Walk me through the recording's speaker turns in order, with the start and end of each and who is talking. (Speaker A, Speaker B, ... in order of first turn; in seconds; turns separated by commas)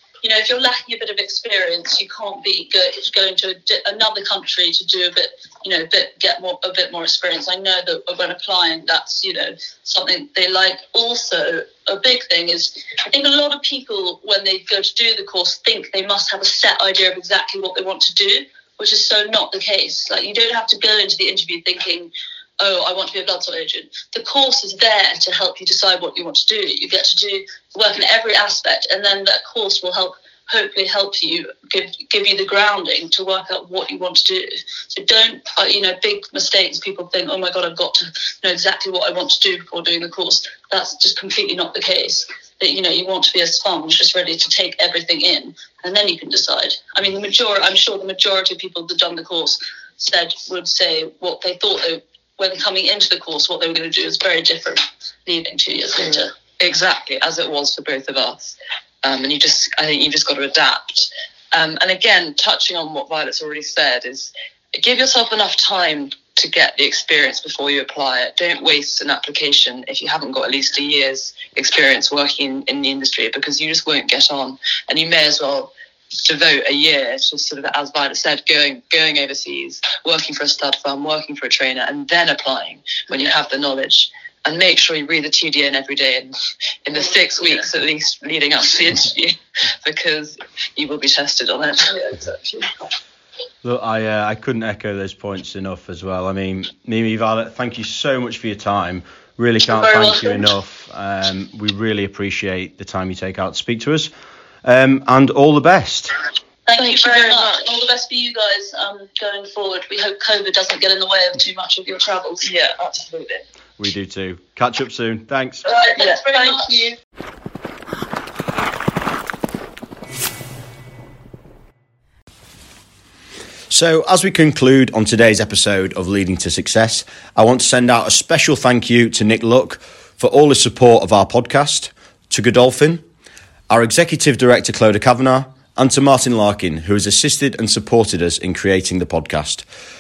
Speaker A: 0.2-56.3, Speaker B: 56.6-86.3, Speaker B: 86.8-92.0, Speaker A: 91.9-92.7, Speaker C: 93.6-104.1, Speaker A: 99.7-100.4, Speaker C: 104.6-106.1, Speaker A: 106.7-112.5, Speaker B: 106.7-107.8, Speaker B: 112.4-113.4, Speaker C: 113.8-115.6, Speaker A: 115.6-116.9, Speaker B: 115.8-116.9, Speaker C: 123.7-133.0, Speaker C: 133.7-139.6